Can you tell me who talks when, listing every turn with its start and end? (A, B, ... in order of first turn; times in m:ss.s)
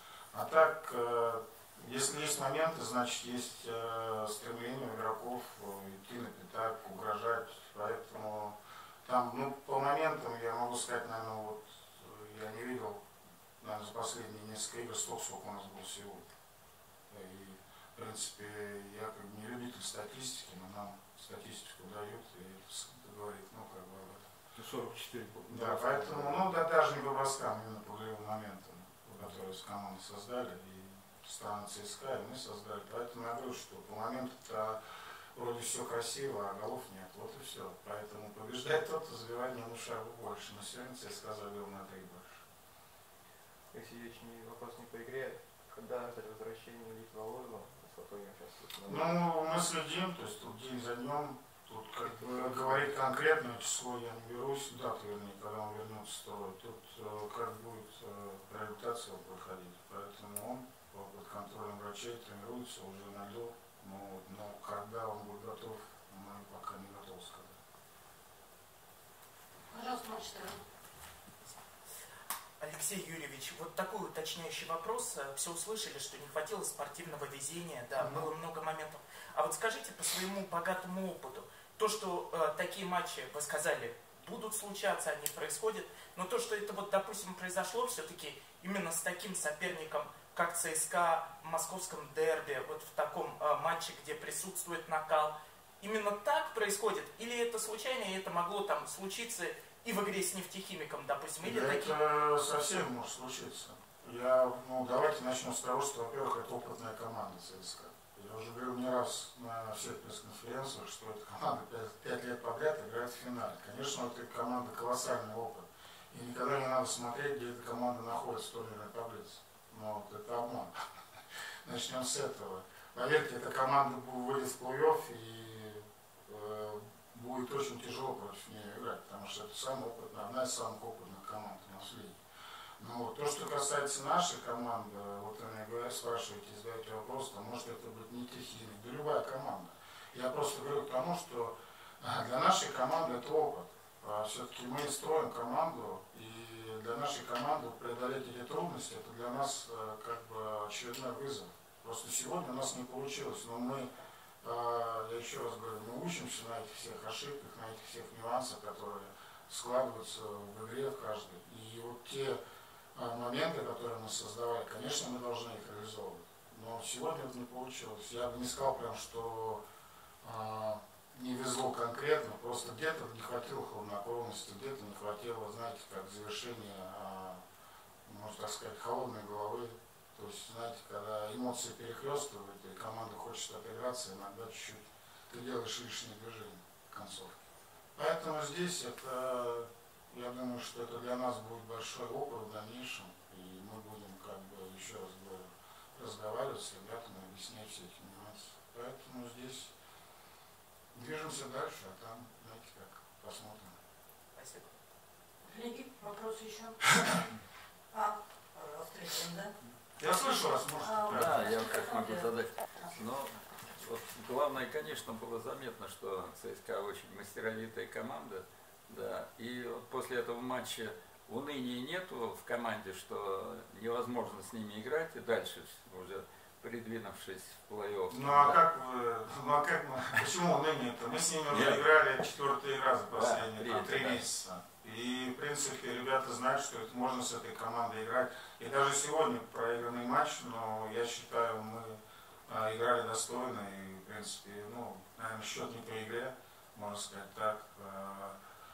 0:00.3-0:13.0 A
0:13.6-0:16.3 A
0:17.1-0:24.2 A
0:24.5-0:26.5 B
0:25.5-0:34.8 A
0:35.3-0:42.4 A
0:43.7-0:49.2 C
0:48.9-1:07.6 A
0:52.0-0:52.9 C
1:09.7-1:10.6 D
1:12.6-1:42.0 E
1:41.4-2:00.7 A
2:01.6-2:12.2 A
2:12.8-2:33.9 A
2:34.4-2:42.4 A
2:42.9-2:49.6 A
2:50.2-2:57.4 A
2:58.0-3:07.4 A
3:08.0-3:19.7 A
3:20.9-3:23.7 A
3:24.3-3:24.7 E
3:25.4-3:26.8 D
3:27.9-3:29.5 D
3:30.0-3:31.4 A
3:30.8-3:32.8 D
3:31.1-3:48.6 F
3:48.1-4:08.4 A
3:51.5-3:51.9 F
3:53.1-3:54.2 F